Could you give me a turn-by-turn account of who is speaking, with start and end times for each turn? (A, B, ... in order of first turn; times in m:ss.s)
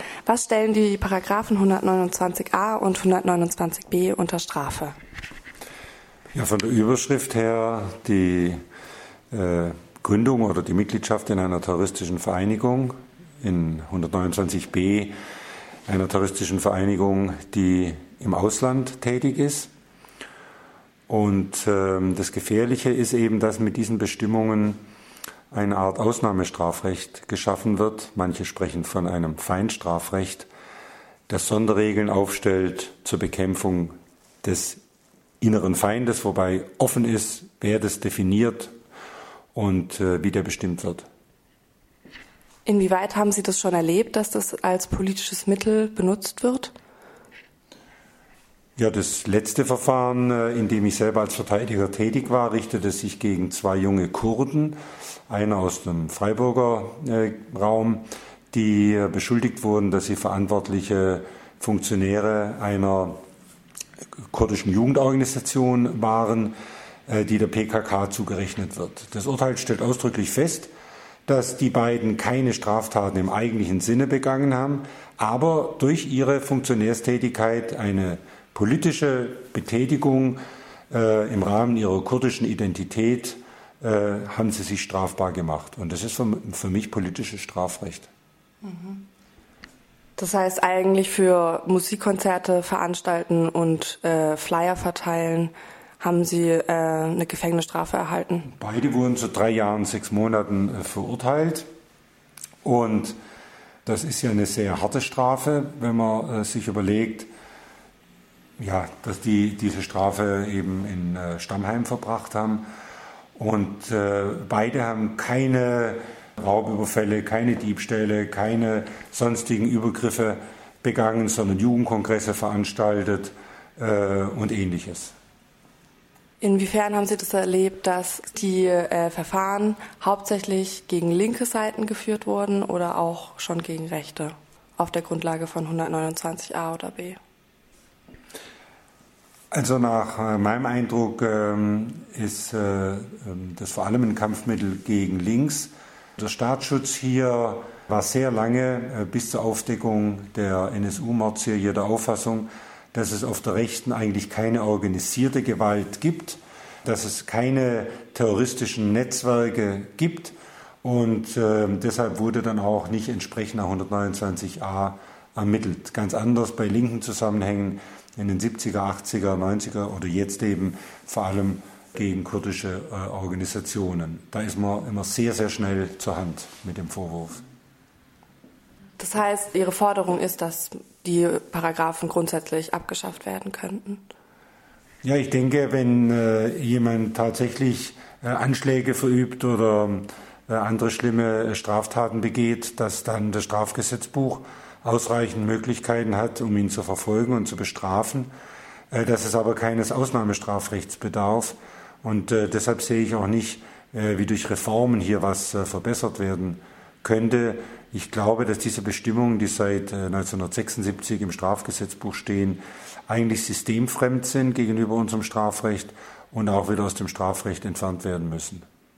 0:00.3-0:05.0 A
0:06.3-0:08.6 B
0:09.3-0:15.1 B
0:15.9-0:19.7 B
0:21.1-0:24.8 B
0:25.5-0:30.5 B
0:31.3-0:34.8 B
0:35.4-0:38.7 B
0:39.5-0:41.1 B
0:42.7-0:46.7 A
0:48.8-0:54.8 B
0:55.3-1:03.2 B
1:04.3-1:06.6 B
1:07.1-1:10.7 B
1:11.3-1:28.1 B
1:28.6-1:29.0 A
1:30.2-1:38.5 A
1:38.6-1:41.7 B
1:42.6-1:43.2 B
1:43.8-1:47.3 B
1:48.6-1:52.7 B
1:53.4-2:05.1 B
2:06.4-2:17.2 A
2:19.5-2:57.4 B
2:59.0-3:04.0 A
3:05.0-3:18.3 B
3:18.9-3:38.6 B